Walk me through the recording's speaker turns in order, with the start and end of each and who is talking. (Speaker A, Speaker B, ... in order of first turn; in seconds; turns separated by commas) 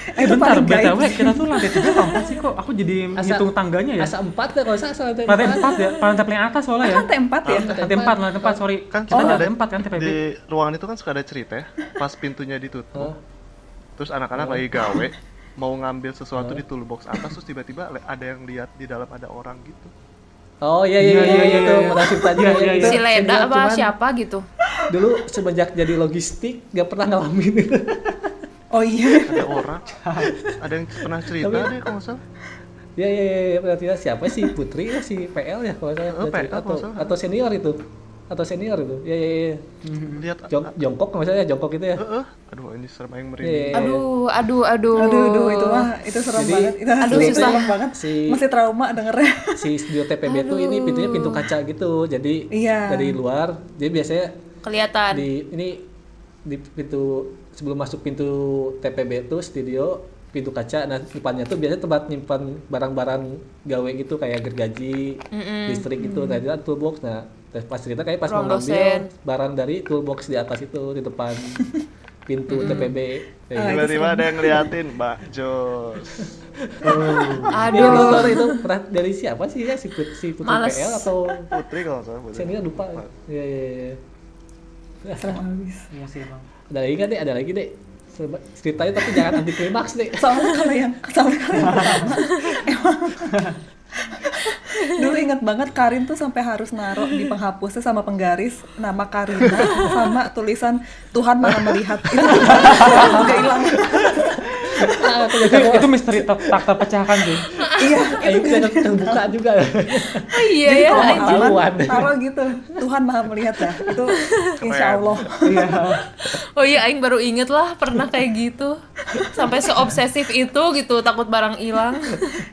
Speaker A: 0.1-2.2, Speaker B: 0.2-4.1, Speaker C: 3.1-5.8, Speaker B: 5.3-7.1, Speaker A: 6.8-7.8, Speaker D: 7.4-7.8, Speaker C: 7.5-8.6, Speaker B: 7.8-10.2, Speaker D: 8.9-13.1, Speaker A: 9.1-9.4, Speaker D: 14.0-19.9, Speaker C: 14.3-14.7, Speaker C: 16.4-16.6, Speaker C: 20.6-23.9, Speaker B: 21.0-23.0, Speaker E: 22.8-24.4, Speaker C: 24.9-28.3, Speaker A: 28.7-29.7, Speaker D: 29.3-32.2, Speaker B: 30.0-30.3, Speaker C: 30.3-30.6, Speaker C: 31.3-31.8, Speaker C: 33.0-37.8, Speaker D: 36.1-37.1, Speaker C: 38.3-39.6, Speaker B: 39.8-40.2, Speaker D: 40.2-40.8, Speaker C: 40.5-42.0, Speaker D: 42.0-43.9, Speaker C: 43.4-44.0, Speaker E: 43.7-45.9, Speaker A: 44.9-49.7, Speaker C: 46.3-48.4, Speaker E: 47.0-47.7, Speaker C: 49.6-54.3, Speaker E: 50.2-51.5, Speaker A: 52.5-53.2, Speaker E: 54.6-55.2, Speaker C: 55.1-55.8, Speaker C: 56.4-71.6, Speaker E: 65.3-66.1, Speaker A: 66.0-66.4, Speaker E: 68.3-69.1, Speaker C: 72.3-74.0, Speaker E: 72.5-72.9, Speaker A: 73.5-74.7, Speaker D: 73.6-76.3, Speaker C: 76.2-81.5, Speaker A: 76.8-78.4, Speaker B: 76.8-77.6, Speaker E: 77.5-78.6, Speaker E: 80.4-81.1, Speaker D: 81.5-83.1, Speaker C: 82.3-84.0, Speaker C: 85.0-85.4, Speaker A: 85.2-85.9, Speaker B: 85.9-86.5, Speaker C: 86.7-90.3, Speaker A: 90.2-93.4, Speaker B: 91.6-92.1, Speaker E: 92.2-92.6, Speaker A: 94.0-105.2, Speaker E: 99.6-99.9, Speaker C: 101.4-106.8, Speaker B: 102.5-103.2, Speaker B: 105.4-107.4, Speaker E: 107.6-108.0, Speaker C: 107.6-112.1, Speaker A: 107.8-109.2, Speaker E: 110.3-111.5, Speaker A: 110.6-115.8, Speaker E: 114.1-114.5, Speaker D: 114.6-115.3, Speaker B: 115.4-116.1, Speaker E: 116.3-118.8, Speaker A: 119.1-119.6, Speaker E: 119.3-122.4